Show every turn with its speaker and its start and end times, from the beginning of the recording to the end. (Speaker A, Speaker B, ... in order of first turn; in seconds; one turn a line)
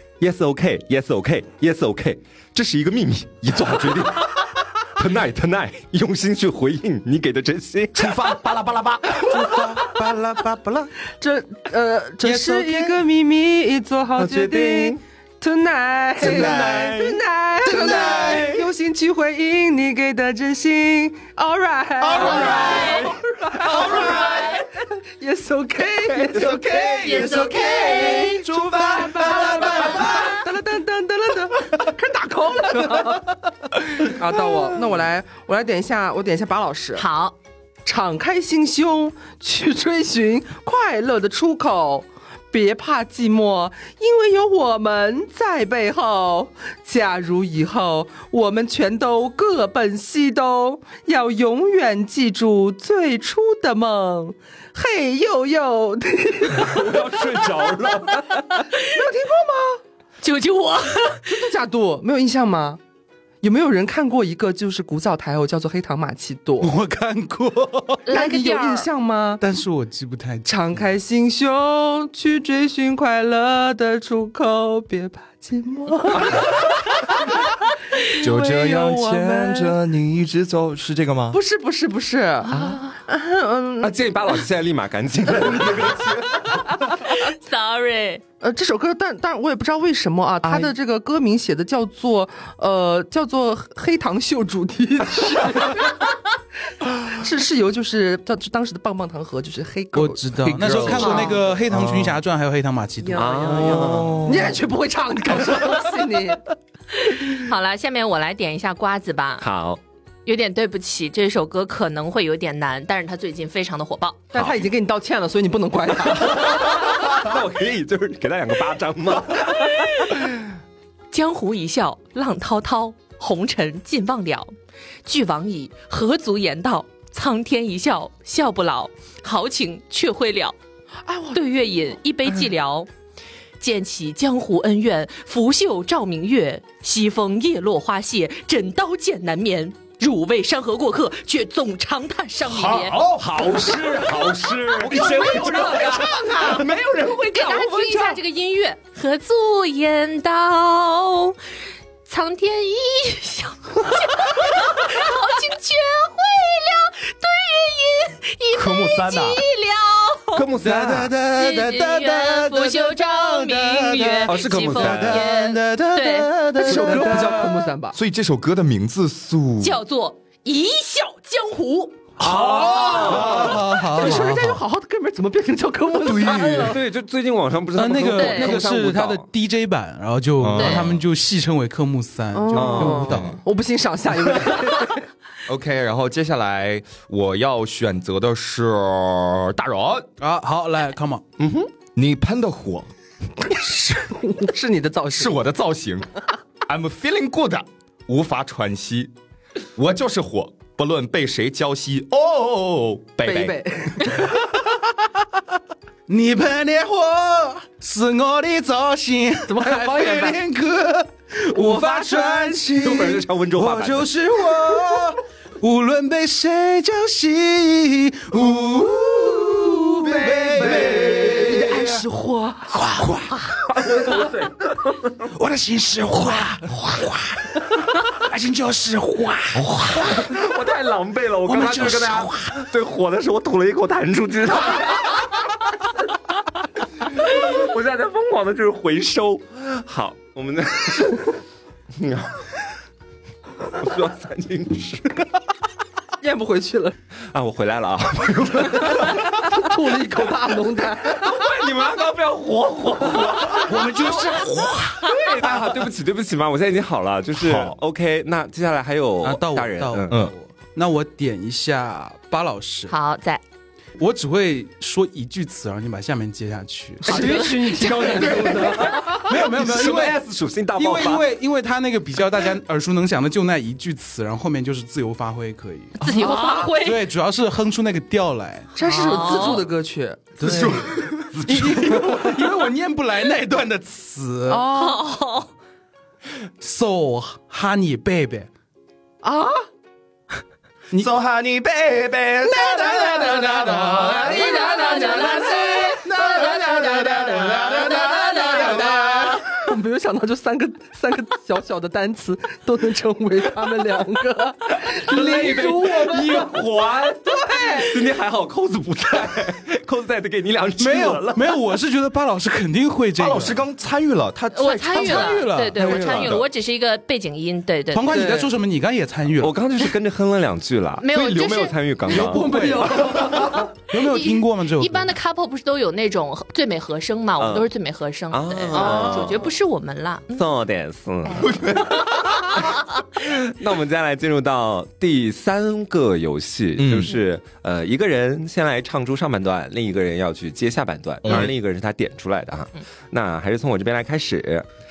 Speaker A: 0.2-8.3
Speaker B: 3.6-4.1
Speaker B: 7.9-9.4
Speaker C: 9.3-10.9
Speaker D: 11.2-37.1
Speaker C: 12.2-13.0
Speaker A: 14.2-15.0
Speaker C: 16.2-17.0
Speaker A: 16.2-17.2
Speaker C: 17.6-18.6
Speaker C: 22.0-23.1
Speaker E: 22.2-23.1
Speaker A: 22.3-23.0
Speaker E: 23.7-24.6
Speaker C: 23.7-24.5
Speaker C: 26.4-30.4
Speaker E: 26.4-28.5
Speaker B: 27.0-27.9
Speaker E: 37.0-37.4
Speaker D: 37.9-57.2
Speaker A: 56.6-58.5
Speaker D: 58.8-59.8
Speaker E: 60.2-61.4
Speaker D: 61.3-62.8
Speaker D: 63.4-66.7
Speaker C: 66.6-68.1
Speaker E: 68.1-68.9
Speaker D: 68.1-69.4
Speaker C: 69.4-70.5
Speaker D: 70.5-77.2
Speaker D: 78.1-79.8
Speaker B: 78.2-81.4
Speaker D: 81.3-83.9
Speaker A: 82.5-82.8
Speaker A: 83.8-86.6
Speaker E: 86.8-88.2
Speaker D: 88.4-95.9
Speaker D: 97.0-101.4
Speaker C: 100.0-103.5
Speaker B: 100.5-101.2
Speaker E: 101.0-101.4
Speaker B: 101.7-102.0
Speaker A: 101.7-102.1
Speaker D: 103.0-106.5
Speaker A: 103.2-104.3
Speaker B: 103.7-104.6
Speaker E: 107.0-109.4
Speaker A: 109.4-109.8
Speaker E: 110.3-114.2
Speaker D: 114.3-116.8
Speaker A: 116.3-120.2
Speaker E: 121.1-124.5
Speaker E: 125.0-130.6
Speaker D: 131.1-131.4
Speaker E: 131.3-132.9
Speaker E: 133.6-143.0
Speaker B: 142.4-143.8
Speaker A: 143.0-148.2
Speaker E: 144.8-151.4
Speaker B: 145.0-145.7
Speaker E: 152.1-160.4
Speaker B: 158.5-159.4
Speaker A: 160.3-161.1
Speaker C: 160.6-167.7
Speaker E: 161.2-166.4
Speaker A: 164.2-165.3
Speaker D: 166.6-168.0
Speaker B: 166.9-167.3
Speaker B: 167.9-169.8
Speaker E: 169.6-172.1
Speaker A: 172.2-173.6
Speaker C: 172.2-174.6
Speaker B: 172.7-173.7
Speaker E: 172.7-173.0
Speaker D: 173.0-176.8
Speaker B: 176.0-176.8
Speaker A: 176.6-179.3
Speaker C: 177.8-183.4
Speaker E: 178.1-178.7
Speaker B: 180.4-180.9
Speaker E: 180.5-180.9
Speaker D: 182.3-185.0
Speaker A: 182.5-183.3
Speaker B: 182.8-183.3
Speaker B: 185.5-190.1
Speaker C: 190.2-191.2
Speaker A: 191.4-191.7
Speaker B: 191.9-192.9
Speaker D: 193.4-195.4
Speaker B: 195.1-196.1
Speaker B: 196.7-199.1
Speaker B: 199.8-203.6
Speaker D: 203.2-204.5
Speaker C: 206.1-222.1
Speaker D: 209.5-210.4
Speaker D: 211.5-212.6
Speaker A: 212.7-214.1
Speaker D: 218.9-222.8
Speaker B: 220.6-221.7
Speaker C: 222.7-223.3
Speaker A: 223.7-225.3
Speaker C: 225.3-230.3
Speaker A: 229.9-235.3
Speaker C: 231.4-232.5
Speaker A: 237.0-241.4
Speaker A: 242.0-242.4
Speaker A: 243.6-245.3
Speaker D: 246.2-246.9
Speaker A: 247.3-249.5
Speaker D: 248.9-251.4
Speaker A: 251.1-260.2
Speaker C: 253.5-255.1
Speaker B: 257.3-257.8
Speaker C: 259.2-262.9
Speaker B: 260.1-260.3
Speaker E: 262.9-263.4
Speaker C: 264.0-270.2
Speaker D: 267.1-269.0
Speaker E: 267.1-267.9
Speaker A: 268.0-271.3
Speaker C: 270.8-278.7
Speaker E: 276.0-277.0
Speaker D: 276.1-276.7
Speaker D: 278.8-280.9
Speaker E: 278.8-279.7
Speaker C: 280.4-284.6
Speaker B: 280.5-280.8
Speaker B: 281.3-281.7
Speaker A: 281.6-282.0
Speaker D: 284.5-285.0
Speaker E: 284.7-285.5
Speaker C: 286.6-288.5
Speaker D: 289.2-289.6
Speaker B: 290.9-294.5
Speaker D: 292.4-306.5
Speaker C: 293.0-294.7
Speaker E: 294.2-296.0
Speaker C: 295.8-299.0
Speaker B: 295.9-299.4
Speaker A: 304.9-311.6
Speaker D: 307.2-308.1
Speaker C: 310.8-313.6
Speaker B: 313.2-315.5
Speaker E: 314.5-318.4
Speaker C: 314.9-316.3
Speaker A: 315.8-316.5
Speaker C: 317.9-319.6
Speaker D: 318.1-318.5
Speaker A: 319.4-323.6
Speaker E: 321.0-322.2
Speaker C: 322.1-325.1
Speaker E: 323.9-330.4
Speaker A: 327.4-327.7
Speaker A: 328.3-329.5
Speaker D: 328.8-329.3
Speaker A: 330.3-331.6
Speaker E: 331.3-332.7
Speaker B: 331.4-332.0
Speaker A: 333.2-344.7
Speaker B: 336.8-337.1
Speaker B: 341.2-341.5